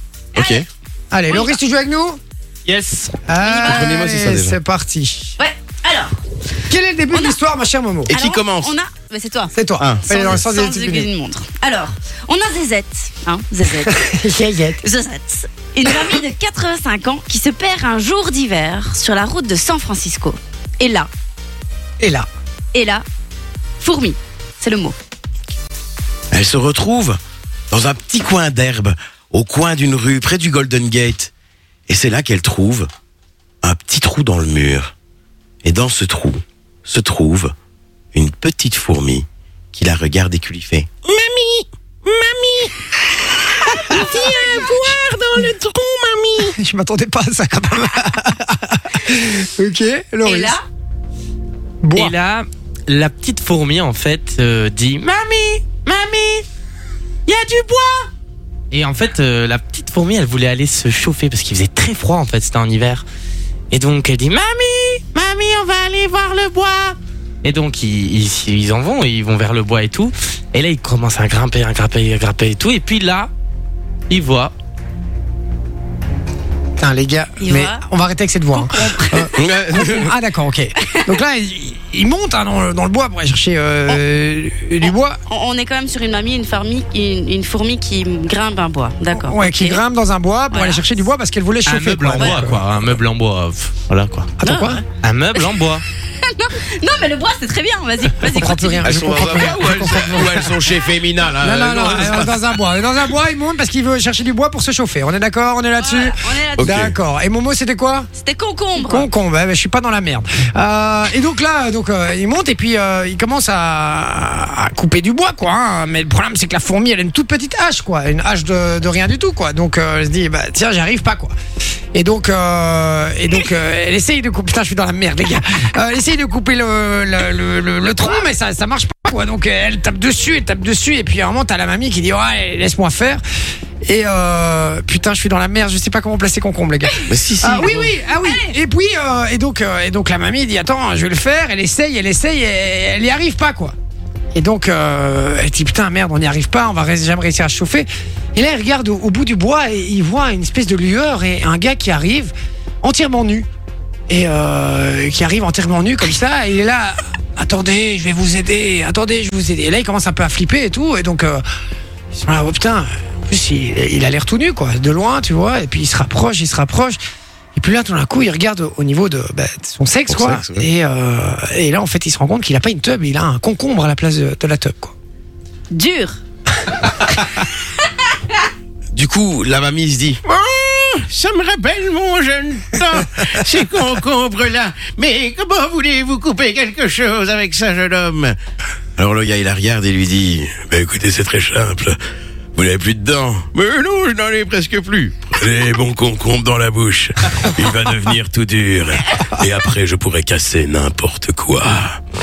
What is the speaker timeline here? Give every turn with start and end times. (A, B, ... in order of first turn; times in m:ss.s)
0:00.3-0:00.7 A
0:00.4-0:00.6 B
0:01.1-0:02.2 C
0:01.3-0:01.6 B
0:02.6-0:03.2 D
0:03.3-0:05.3 C
0:03.4-0:03.9 B
0:03.5-0:04.6 A
0:05.4-0:06.2 B
0:06.7-0:08.1 C
0:08.1-0:08.7 A
0:08.1-0:09.5 B
0:09.5-0:11.1 C
0:09.8-0:10.4 A
0:10.0-0:14.0 B
0:13.8-0:14.8 C
0:14.8-0:21.1 B
0:22.0-0:22.3 C
0:22.7-0:23.0 B
0:23.8-0:24.9 B
0:26.3-0:27.2 A
0:27.7-0:31.3 A
0:31.9-0:32.9 A
0:33.6-0:34.9 A
0:35.6-0:37.5 A
0:38.1-0:46.5 A
0:43.9-0:44.4 C
0:44.2-0:44.7 B
0:46.6-0:50.6 C
0:50.2-0:50.6 B
0:51.8-0:52.1 C
0:51.9-0:56.4 D
0:57.3-0:58.1 D
0:58.7-1:03.0 D
1:03.7-1:13.3 D
1:14.1-1:14.5 D
1:16.8-1:25.2 C
1:17.4-1:17.8 B
1:18.5-1:19.3 B
1:19.4-1:20.1 A
1:20.8-1:21.0 B
1:25.3-1:29.8 B
1:29.1-1:32.7 C
1:30.5-1:31.0 B
1:31.6-1:34.3 D
1:34.4-1:34.8 C
1:34.4-1:34.8 B
1:34.8-1:35.8 D
1:35.3-1:35.6 B
1:36.2-1:38.9 B
1:38.2-1:40.7 C
1:38.8-1:42.6 A
1:41.4-1:48.1 C
1:45.8-1:46.8 B
1:46.6-1:46.9 A
1:48.2-1:49.1 B
1:48.8-2:01.3 C
2:01.9-2:13.2 C
2:13.8-2:23.7 C
2:17.1-2:18.0 A
2:24.3-2:33.5 C
2:34.1-2:41.4 C
2:42.1-2:47.0 C
2:47.5-2:54.9 C
2:50.1-2:50.7 A
2:55.7-2:56.2 B
2:58.9-3:08.4 A
3:09.0-3:12.0 A
3:12.5-3:22.0 A